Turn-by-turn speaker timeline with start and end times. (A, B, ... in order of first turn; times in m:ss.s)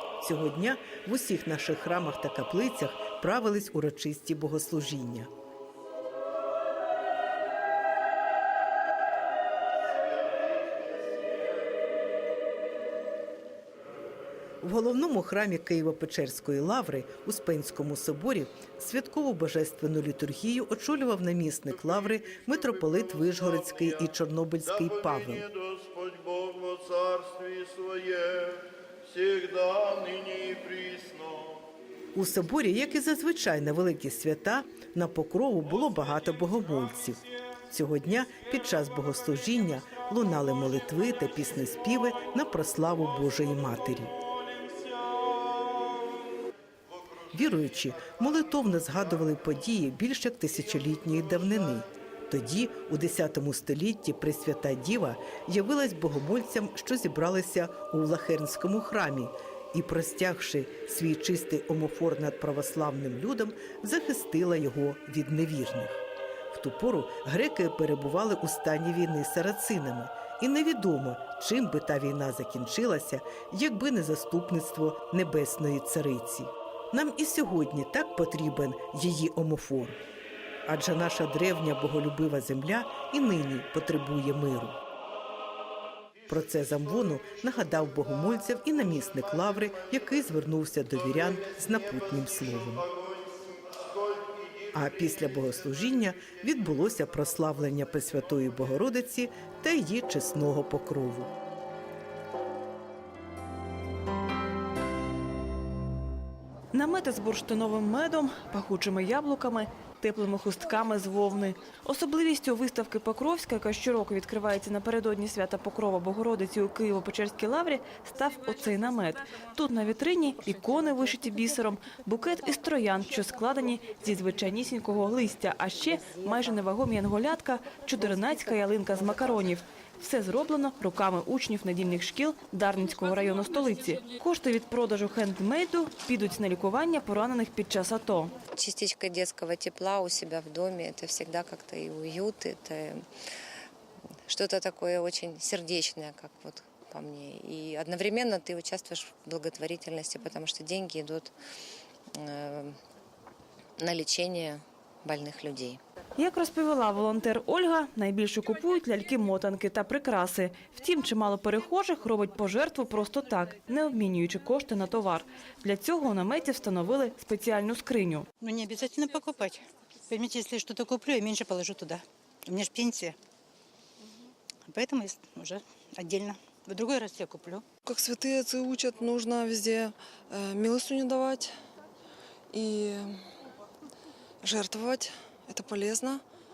0:00.2-0:05.3 A
0:14.6-0:25.5 A
0:25.8-0:28.5 B
0:29.2-0:31.4 B
0:32.1-0:44.1 A
0:47.3-1:20.0 A
1:20.7-1:24.8 A
1:26.3-1:32.9 A
1:34.7-1:41.3 A
1:46.7-2:18.4 C
2:18.5-2:23.1 D
2:24.3-2:31.3 D
2:32.1-2:32.8 D
2:33.8-2:35.8 D
2:36.2-2:48.3 C
2:48.4-2:53.2 E
2:54.7-2:57.7 E
2:57.8-3:01.5 F
3:02.5-3:03.2 F
3:04.4-3:06.2 F